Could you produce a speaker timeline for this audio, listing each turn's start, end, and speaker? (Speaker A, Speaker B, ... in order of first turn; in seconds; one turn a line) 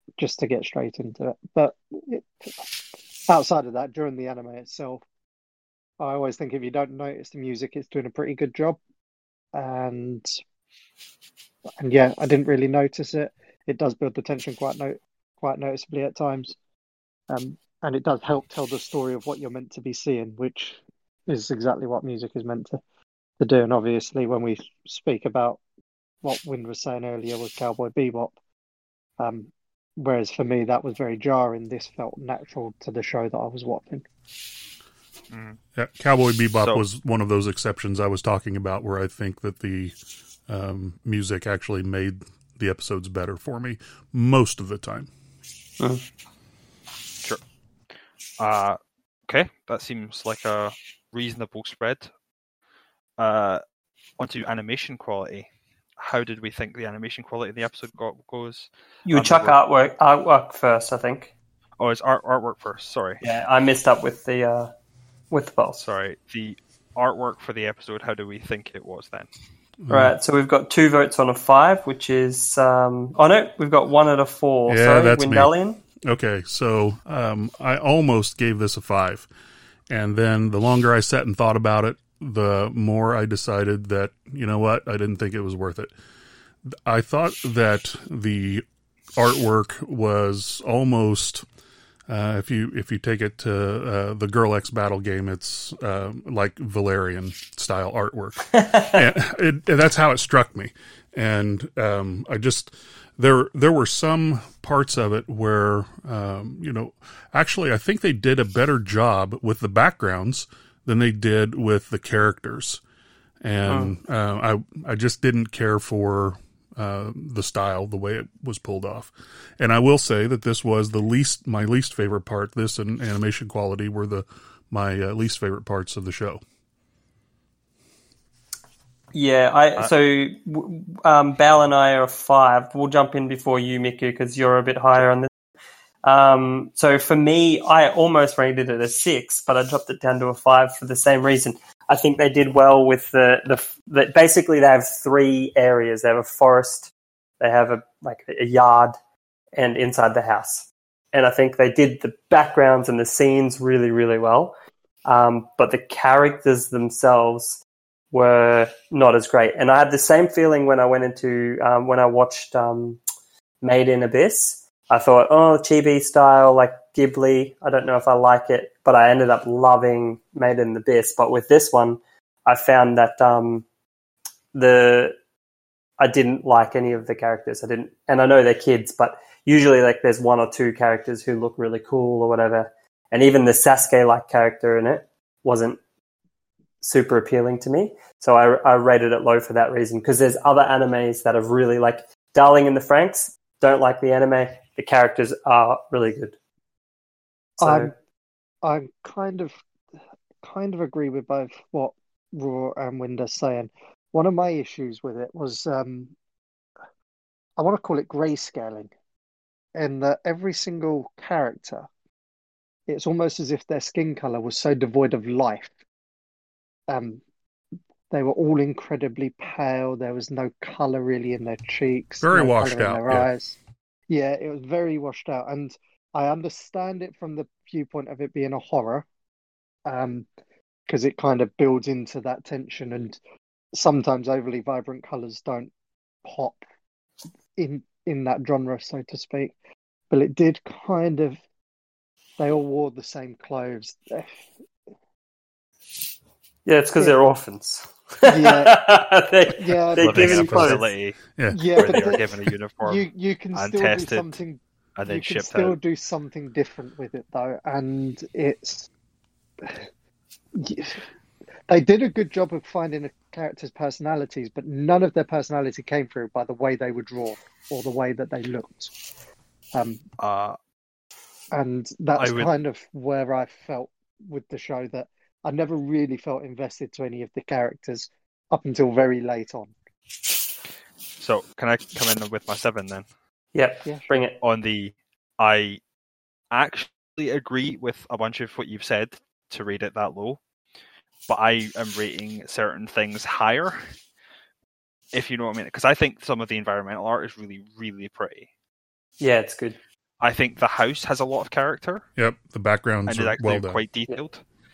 Speaker A: 0.2-2.6
Speaker A: 3.3-5.0
Speaker A: 6.0-8.8
Speaker A: 9.5-10.3
Speaker A: 11.8-16.6
Speaker A: 17.3-22.8
Speaker A: 23.4-25.6
Speaker A: 26.2-28.3
Speaker A: 29.2-34.0
Speaker B: 35.3-35.6
Speaker C: 35.8-40.0
Speaker B: 36.5-36.8
Speaker C: 40.5-45.1
Speaker B: 48.4-52.1
Speaker B: 53.2-53.6
Speaker B: 54.2-55.5
Speaker B: 56.0-59.5
Speaker D: 59.0-61.3
Speaker B: 61.8-63.2
Speaker D: 63.2-64.7
Speaker D: 65.3-65.8
Speaker B: 65.8-69.3
Speaker C: 69.8-70.1
Speaker D: 69.9-75.8
Speaker C: 74.7-79.3
Speaker C: 79.9-85.9
Speaker C: 86.7-88.6
Speaker C: 89.2-91.5
Speaker C: 92.1-112.8
Speaker D: 98.5-99.0
Speaker C: 113.4-126.4
Speaker D: 113.7-113.9
Speaker D: 129.1-135.3
Speaker D: 136.0-149.0
Speaker D: 149.6-163.0
Speaker D: 163.6-173.6
Speaker D: 174.5-175.2
Speaker D: 176.0-185.8
Speaker D: 186.8-196.3
Speaker D: 197.6-197.9
Speaker A: 197.6-197.9
Speaker A: 198.6-199.5
Speaker A: 200.4-206.1
Speaker A: 207.6-208.9
Speaker A: 209.7-211.9
Speaker A: 212.9-215.7
Speaker A: 216.9-217.2
Speaker A: 218.1-223.6
Speaker C: 222.2-223.3
Speaker A: 224.1-229.1
Speaker A: 229.8-230.3
Speaker A: 230.9-233.2
Speaker A: 233.7-235.7
Speaker A: 236.2-236.6
Speaker A: 237.6-239.5
Speaker A: 240.1-241.4
Speaker A: 242.4-244.3
Speaker D: 246.6-250.8
Speaker A: 248.2-248.8
Speaker A: 249.5-250.5
Speaker B: 250.0-251.2
Speaker C: 250.4-250.7
Speaker C: 251.3-251.7
Speaker A: 251.5-258.9
Speaker B: 251.8-254.4
Speaker B: 255.0-255.8
Speaker A: 259.6-259.9
Speaker A: 260.5-261.0
Speaker A: 261.7-268.9
Speaker A: 269.7-270.0
Speaker B: 270.2-270.6
Speaker A: 271.5-279.7
Speaker B: 272.2-272.5
Speaker B: 281.2-283.1
Speaker D: 283.5-284.4
Speaker A: 283.8-284.1
Speaker B: 284.4-285.8
Speaker B: 286.5-290.4
Speaker B: 291.3-293.9
Speaker B: 295.1-298.5
Speaker D: 299.2-299.8
Speaker B: 300.2-302.0
Speaker C: 302.2-303.8
Speaker B: 303.1-304.4